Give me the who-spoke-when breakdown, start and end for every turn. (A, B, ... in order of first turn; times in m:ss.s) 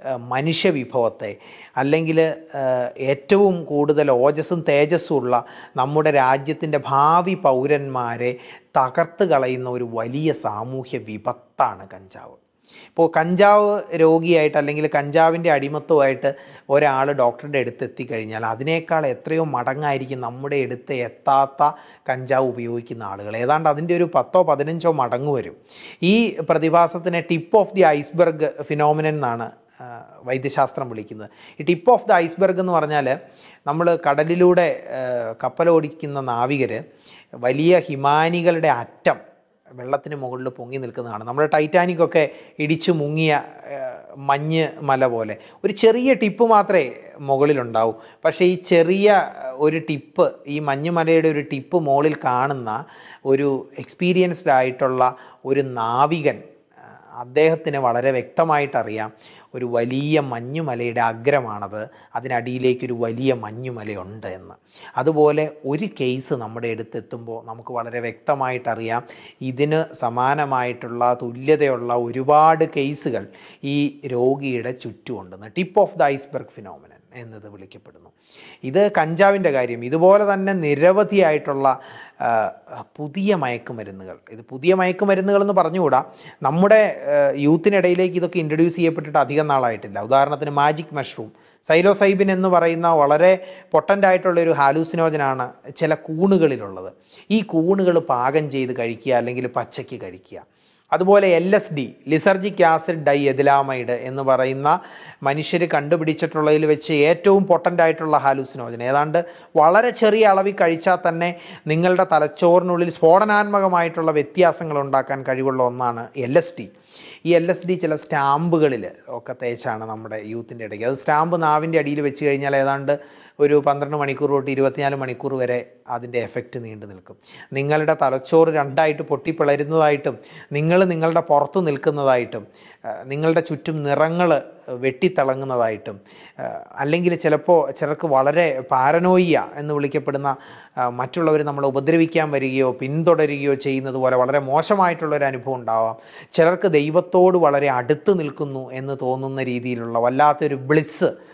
0:00.3-0:12.4 A
0:13.0-0:33.1 A
0:33.7-0:36.8 A
0:37.4-0:39.2 A
0:39.8-0:56.4 A
0:57.2-1:18.1 A
1:18.7-1:56.7 A
1:57.3-2:12.4 A
2:13.0-2:31.1 A